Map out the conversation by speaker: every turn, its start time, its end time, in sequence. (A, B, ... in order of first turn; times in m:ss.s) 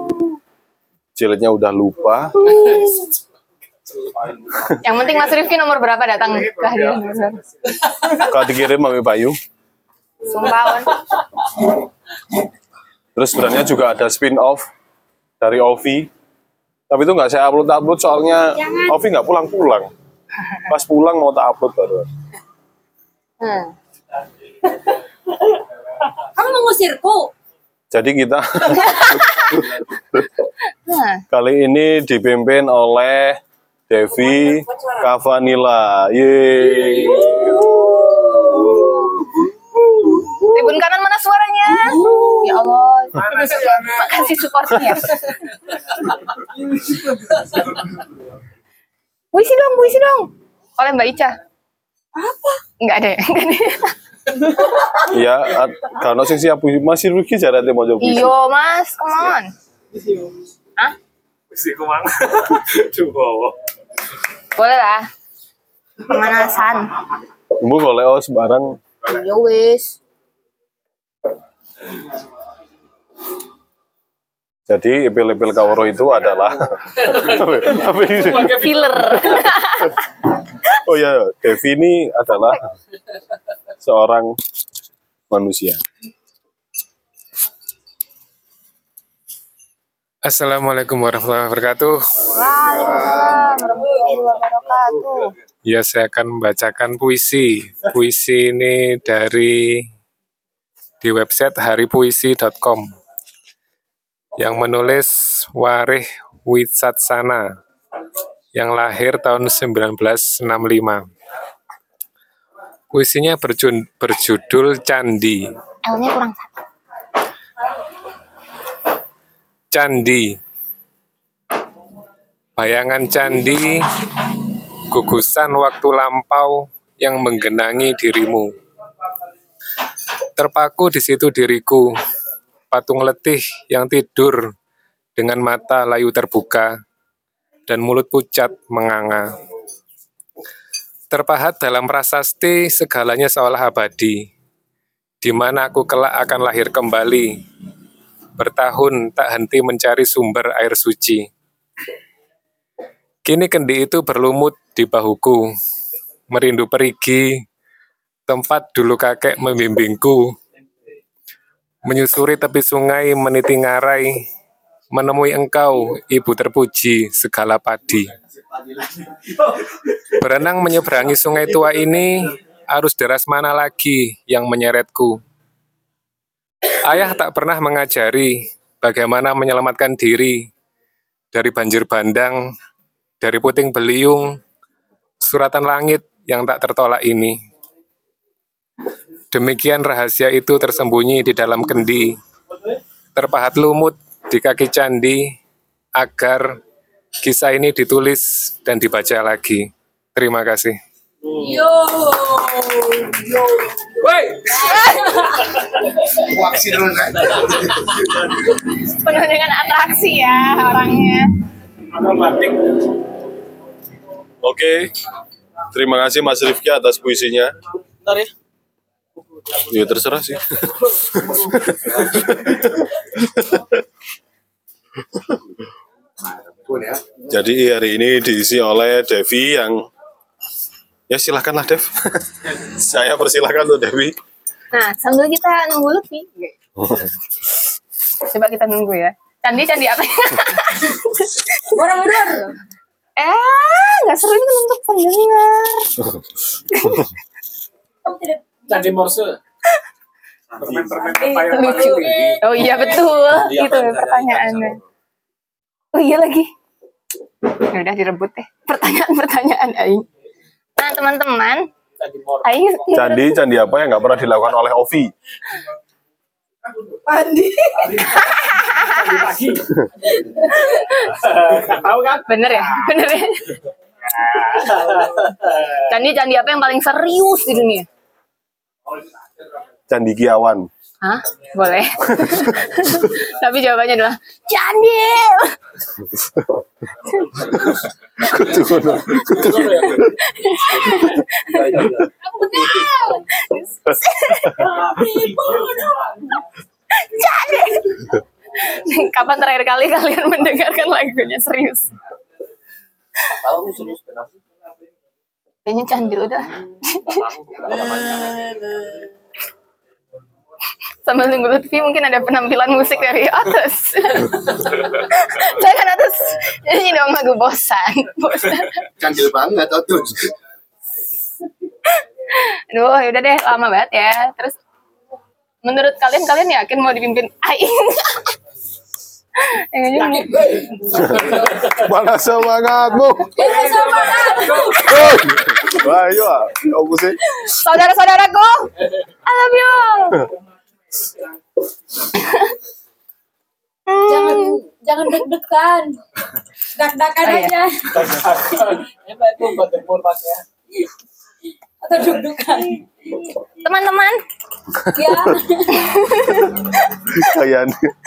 0:01.2-0:02.5 A
0:04.8-0:07.4 B
0:08.1-0:09.4 A
0:10.3-0:11.0 B
0:13.2-0:14.6 A
0:15.4-0:16.1 A
0:16.9-0:19.9 A
0:20.7-0:22.1 A
0:23.4-0:23.7 B
0:26.7-0:27.0 C
0:27.9-0:29.6 A
0:30.8-0:31.2 B
0:31.3-0:33.4 A
0:33.9-0:37.6 A
0:38.5-0:38.9 B
0:40.5-0:45.3 B
0:49.3-0:51.4 B
0:52.8-0:54.0 B
0:55.0-0:58.3 A
0:58.0-0:59.5 B
1:01.5-1:03.5 D
1:04.6-1:05.1 B
1:06.1-1:06.9 B
1:07.6-1:08.8 A
1:09.0-1:10.0 B
1:14.7-1:18.6 A
1:18.4-1:20.0 B
1:20.8-1:22.6 A
1:23.8-1:24.3 A
1:25.3-1:25.8 A
1:30.2-1:32.0 D
1:32.3-1:35.2 B
1:32.8-1:33.3 E
1:35.7-1:39.9 D
1:41.0-1:42.9 D
1:44.4-1:47.6 D
1:48.5-1:51.1 D
1:52.9-1:55.5 D
1:55.8-1:56.5 B
1:59.7-2:00.4 D
2:02.6-2:04.1 D
2:04.9-2:08.5 D
2:10.4-2:11.9 D
2:12.7-2:14.5 D
2:15.2-2:16.8 D
2:17.7-2:19.4 D
2:21.1-2:24.3 D
2:25.2-2:27.4 D
2:28.4-2:31.3 D
2:33.2-2:35.5 D
2:36.3-2:37.4 D
2:38.3-2:40.4 D
2:41.8-2:44.2 D
2:44.9-2:48.1 D
2:50.2-2:55.2 D
2:56.8-3:00.5 D
3:01.3-3:02.5 D
3:03.2-3:04.4 D
3:05.2-3:07.4 D
3:09.3-3:12.2 D
3:13.2-3:15.4 D
3:16.0-3:16.6 D
3:17.2-3:20.8 D
3:21.3-3:21.7 F
3:26.2-3:27.6 E
3:28.8-3:31.3 B
3:32.0-3:32.7 F
3:34.4-3:34.9 A
3:35.7-3:37.6 A
3:39.6-3:43.6 A
3:46.6-3:47.2 E
3:47.3-3:49.8 A
3:51.1-3:54.2 A
3:54.7-3:56.5 B
3:56.8-3:57.1 A
3:58.2-4:01.8 B
4:03.2-4:06.0 B
4:06.7-4:07.0 B
4:08.7-4:09.4 F
4:10.6-4:11.5 D
4:11.5-4:14.8 B
4:12.0-4:12.3 F
4:13.5-4:14.0 F
4:15.9-4:16.5 B
4:17.5-4:20.0 B
4:20.8-4:21.6 B
4:22.0-4:22.5 F
4:22.4-4:23.2 B
4:22.9-4:25.1 A
4:27.9-4:29.3 B
4:29.1-4:29.6 F
4:30.4-4:31.2 B
4:31.9-4:33.5 B
4:34.3-4:34.8 F
4:35.7-4:37.9 B
4:39.9-4:40.7 A
4:41.0-4:45.4 B
4:47.6-4:50.1 A
4:50.3-4:51.8 B
4:52.4-4:54.7 B
4:57.0-5:01.9 B
5:05.6-5:08.3 B
5:11.0-5:18.8 B
5:19.0-5:20.3 E
5:22.3-5:24.6 B
5:25.6-5:28.3 B
5:29.4-5:31.2 B
5:31.0-5:33.5 A
5:33.4-5:35.2 B
5:34.8-5:37.2 A
5:37.3-5:38.7 B
5:39.2-5:40.2 B
5:43.9-5:44.6 B
5:44.4-5:45.9 C
5:46.8-5:47.5 C
5:47.2-5:47.6 B
5:48.0-5:50.4 F
5:51.9-5:52.6 C
5:53.6-5:54.2 B
5:55.7-5:56.6 B
5:57.2-5:57.8 A